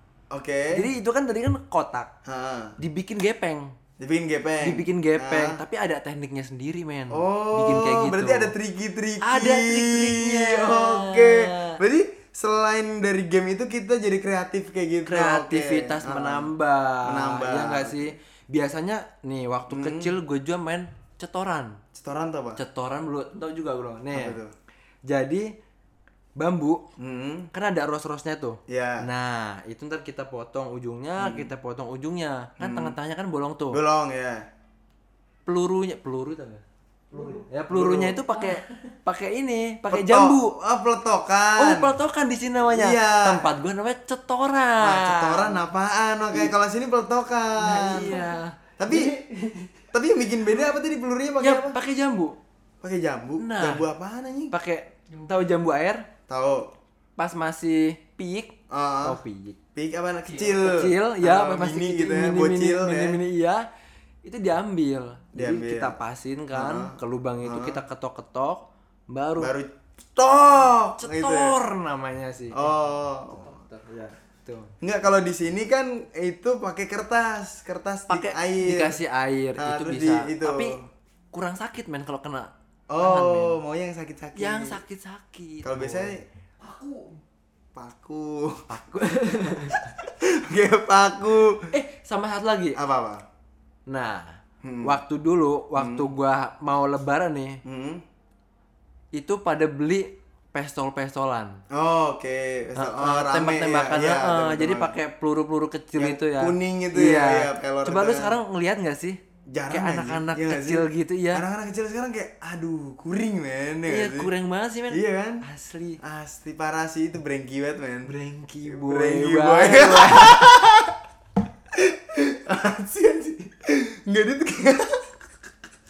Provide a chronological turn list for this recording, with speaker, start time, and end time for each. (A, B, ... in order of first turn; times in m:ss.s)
0:00.3-0:00.9 A
0:00.7-0:02.1 B
0:02.3-0:02.8 A
0:02.8-0:03.7 B
0:04.0-0:05.6 A
0:04.6-0:08.5 B
0:07.1-0:16.5 A
0:09.2-0:11.8 B
0:15.1-0:21.8 B
0:17.0-0:18.1 A
0:19.7-0:20.2 A
0:21.9-0:22.6 A
0:22.6-0:24.4 B
0:24.1-0:24.5 A
0:25.0-0:25.5 B
0:26.4-0:26.8 B
0:27.0-0:27.5 A
0:27.5-0:33.8 B
0:28.7-0:29.1 A
0:31.2-0:31.5 A
0:32.6-0:33.0 A
0:33.7-0:34.4 A
0:35.5-0:40.6 B
0:37.7-0:38.3 A
0:39.9-0:42.0 A
0:41.6-0:45.6 B
0:42.7-0:43.5 A
0:44.8-0:48.2 A
0:47.6-0:49.8 B
0:48.8-0:49.2 A
0:49.9-0:51.8 A
0:51.4-0:52.4 B
0:52.8-0:54.5 A
0:53.4-0:53.9 B
0:54.5-0:56.1 B
0:56.3-0:56.7 A
0:57.2-0:59.6 B
0:58.7-0:59.2 A
0:59.8-1:03.2 A
1:00.3-1:03.6 B
1:04.2-1:09.5 B
1:05.3-1:06.0 A
1:06.5-1:07.8 A
1:09.4-1:11.6 A
1:11.0-1:12.7 B
1:12.5-1:13.6 A
1:13.4-1:14.7 B
1:14.8-1:19.0 A
1:18.1-1:20.8 B
1:19.6-1:20.8 A
1:21.3-1:23.6 B
1:22.9-1:24.8 A
1:24.4-1:26.2 B
1:25.6-1:26.2 A
1:27.8-1:28.6 A
1:28.7-1:29.9 B
1:29.5-1:31.7 A
1:31.7-1:32.8 B
1:32.8-1:33.2 A
1:33.9-1:37.6 B
1:34.6-1:35.0 A
1:35.8-1:36.1 A
1:37.6-1:38.0 A
1:39.1-1:41.6 B
1:41.7-1:45.0 A
1:42.8-1:51.4 B
1:46.0-1:48.4 A
1:49.5-1:54.3 A
1:53.9-1:56.0 B
1:54.9-1:55.4 A
1:56.0-1:58.1 A
1:58.1-2:00.5 B
1:58.6-2:01.0 A
2:01.7-2:05.1 A